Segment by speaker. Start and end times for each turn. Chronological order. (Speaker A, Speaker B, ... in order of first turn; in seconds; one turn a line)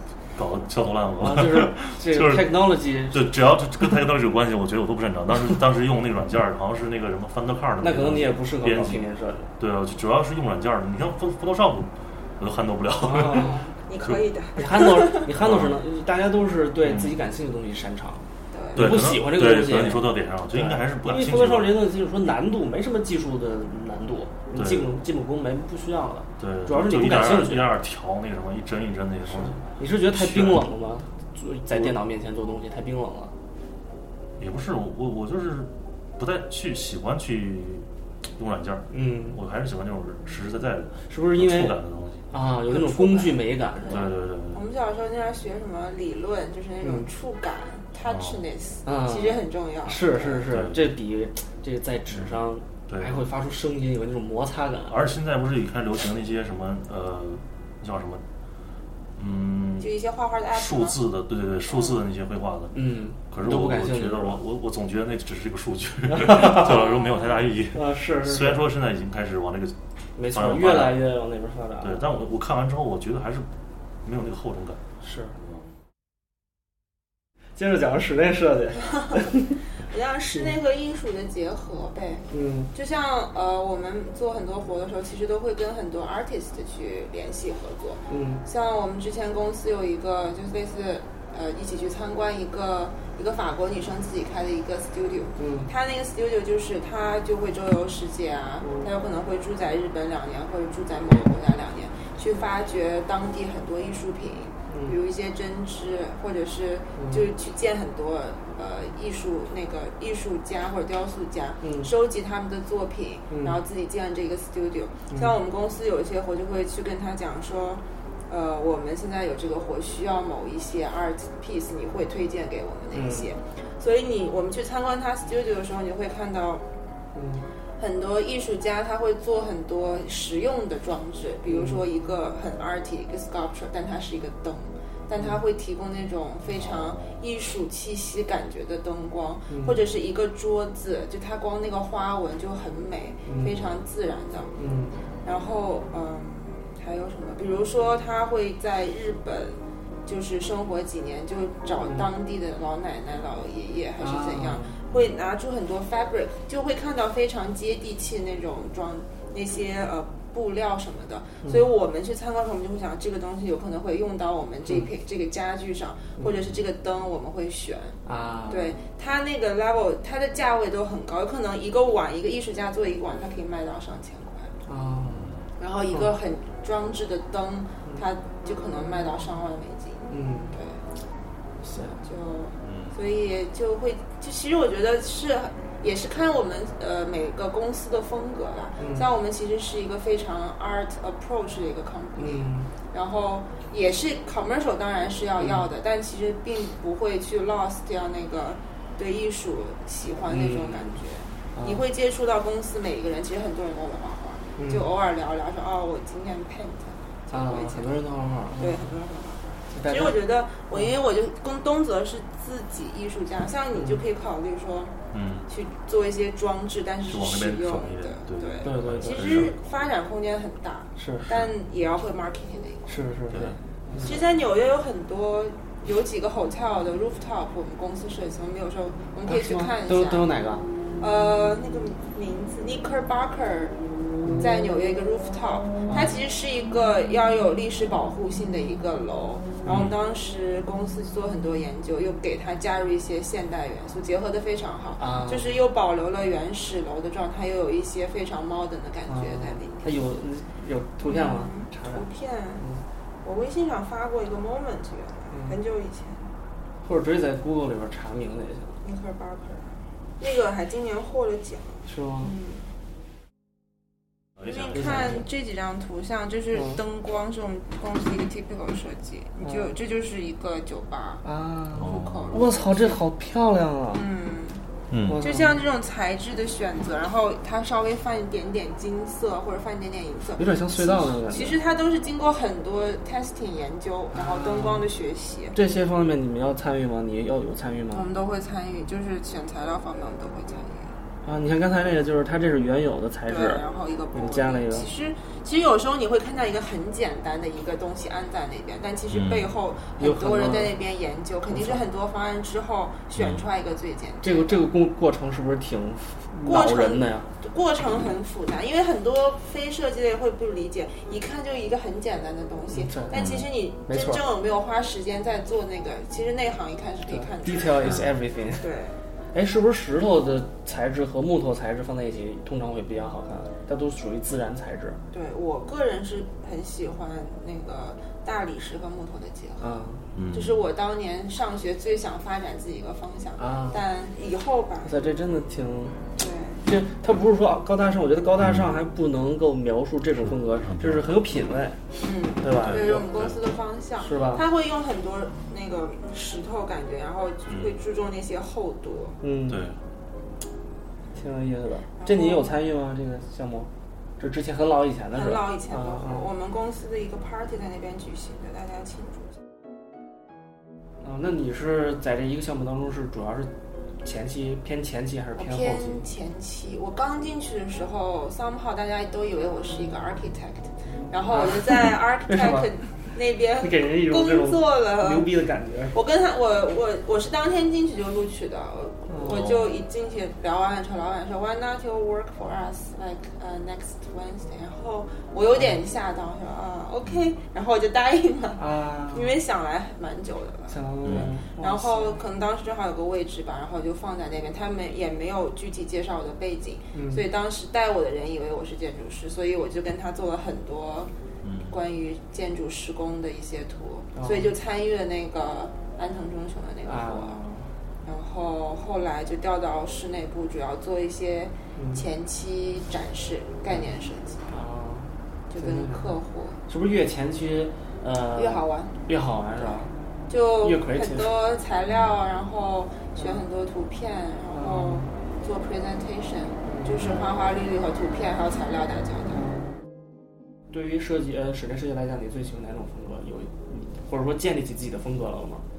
Speaker A: 0.3-9.1
Speaker B: 1.2-3.3
Speaker B: 7.8-9.5
Speaker A: 9.6-14.2
Speaker B: 13.0-13.6
Speaker C: 13.3-15.2
Speaker B: 14.6-18.2
Speaker A: 15.4-15.8
Speaker A: 16.8-17.2
Speaker C: 18.5-18.9
Speaker A: 18.7-21.8
Speaker B: 18.7-27.7
Speaker A: 24.5-24.9
Speaker A: 26.4-30.7
Speaker B: 29.3-33.3
Speaker A: 34.4-42.3
Speaker B: 38.9-39.4
Speaker B: 41.1-41.8
Speaker B: 42.3-44.1
Speaker C: 42.7-50.5
Speaker A: 43.9-44.6
Speaker B: 46.8-47.1
Speaker A: 48.0-48.4
Speaker B: 48.8-55.0
Speaker A: 50.5-50.8
Speaker A: 52.1-53.2
Speaker A: 54.9-58.2
Speaker A: 59.1-60.0
Speaker C: 59.8-61.0
Speaker A: 60.5-69.8
Speaker C: 61.7-62.0
Speaker B: 62.7-64.4
Speaker B: 66.1-66.9
Speaker C: 66.7-67.2
Speaker B: 67.7-68.6
Speaker B: 70.2-72.1
Speaker A: 70.3-71.1
Speaker A: 71.8-73.5
Speaker A: 74.0-74.8
Speaker B: 75.0-75.4
Speaker B: 77.5-79.6
Speaker C: 79.8-126.7
Speaker B: 80.3-80.5
Speaker B: 82.3-82.7
Speaker B: 88.1-88.4
Speaker B: 95.4-95.7
Speaker B: 98.6-98.9
Speaker B: 104.7-105.0
Speaker B: 106.9-107.3
Speaker B: 111.6-111.9
Speaker B: 113.3-113.6
Speaker B: 115.1-115.3
Speaker B: 122.9-123.3
Speaker B: 127.1-127.5
Speaker C: 127.8-144.5
Speaker B: 131.4-131.8
Speaker A: 136.5-137.2
Speaker B: 139.5-139.8
Speaker B: 143.2-143.6
Speaker B: 144.6-144.9
Speaker C: 145.2-174.5
Speaker B: 151.8-152.1
Speaker B: 154.0-154.7
Speaker B: 168.1-168.8
Speaker B: 174.7-175.3
Speaker A: 175.1-175.5
Speaker C: 175.6-180.8
Speaker B: 180.1-180.6
Speaker B: 181.6-182.0
Speaker C: 182.0-208.0
Speaker A: 182.6-183.0
Speaker B: 188.8-189.1
Speaker B: 192.2-192.7
Speaker B: 195.4-195.7
Speaker B: 200.3-201.0
Speaker B: 201.5-201.8
Speaker B: 204.6-204.8
Speaker B: 207.3-208.9
Speaker C: 208.5-223.0
Speaker B: 209.7-210.2
Speaker B: 213.7-214.0
Speaker A: 215.1-215.5
Speaker A: 217.1-219.6
Speaker B: 218.6-219.5
Speaker B: 221.0-221.3
Speaker A: 221.3-221.5
Speaker B: 222.9-224.2
Speaker A: 223.3-223.6
Speaker C: 223.9-230.3
Speaker B: 229.3-230.7
Speaker C: 231.0-233.8
Speaker B: 234.2-234.5
Speaker C: 234.4-250.0
Speaker B: 235.9-236.2
Speaker B: 239.6-239.9
Speaker A: 239.7-240.0
Speaker B: 245.0-245.6
Speaker B: 249.1-252.1
Speaker C: 251.0-252.7
Speaker C: 253.2-256.3
Speaker B: 255.3-255.6
Speaker B: 256.8-258.8
Speaker C: 258.8-262.7
Speaker B: 261.9-262.3
Speaker A: 264.4-265.1
Speaker C: 264.4-271.2
Speaker B: 264.7-265.2
Speaker B: 266.5-266.8
Speaker B: 269.4-269.7
Speaker B: 271.2-274.1
Speaker C: 271.8-273.0
Speaker A: 271.8-272.4
Speaker C: 273.9-285.6
Speaker A: 274.9-275.2
Speaker B: 275.1-275.6
Speaker B: 280.4-281.6
Speaker B: 284.1-284.9
Speaker B: 285.5-288.1
Speaker C: 287.9-291.0
Speaker B: 291.2-293.6
Speaker C: 293.3-304.6
Speaker B: 294.1-294.9
Speaker A: 299.1-299.5
Speaker B: 300.0-300.8
Speaker B: 301.5-301.8
Speaker A: 303.1-303.5
Speaker B: 304.2-307.3
Speaker C: 306.4-318.0
Speaker B: 312.7-313.2
Speaker A: 313.1-313.5
Speaker B: 313.9-314.2
Speaker B: 317.1-318.7
Speaker A: 317.8-318.1
Speaker C: 318.6-319.0
Speaker B: 319.3-325.0
Speaker C: 325.1-335.0
Speaker B: 329.6-330.0
Speaker A: 330.1-330.6
Speaker B: 333.4-333.8
Speaker B: 334.8-336.0
Speaker C: 336.1-336.6
Speaker B: 336.6-341.8
Speaker A: 338.4-338.8
Speaker A: 340.6-341.1
Speaker C: 342.0-349.2
Speaker B: 342.4-343.1
Speaker A: 342.5-343.4
Speaker B: 344.0-344.4
Speaker A: 347.5-347.8
Speaker B: 349.2-349.6
Speaker A: 349.5-349.8
Speaker B: 351.1-356.3
Speaker C: 352.0-352.6
Speaker C: 355.1-359.4
Speaker B: 361.0-363.5
Speaker B: 364.0-366.1
Speaker C: 365.4-375.3
Speaker B: 370.9-372.7
Speaker B: 373.6-375.9
Speaker C: 375.9-401.1
Speaker B: 379.1-379.5
Speaker B: 385.5-385.8
Speaker A: 387.0-387.3
Speaker B: 388.6-389.4
Speaker B: 390.7-392.2
Speaker A: 391.0-391.4
Speaker B: 396.9-397.2
Speaker A: 401.4-401.8
Speaker C: 401.7-407.4
Speaker B: 404.1-404.5
Speaker B: 406.8-407.7
Speaker C: 408.0-414.5
Speaker B: 411.8-412.0
Speaker B: 414.5-416.2
Speaker C: 415.5-416.6
Speaker B: 416.7-419.9
Speaker C: 418.3-419.0
Speaker C: 419.6-429.5
Speaker B: 420.6-421.3
Speaker A: 421.9-422.2
Speaker B: 423.2-423.4
Speaker B: 424.5-425.1
Speaker B: 426.6-427.0
Speaker B: 429.3-429.6
Speaker B: 430.7-435.6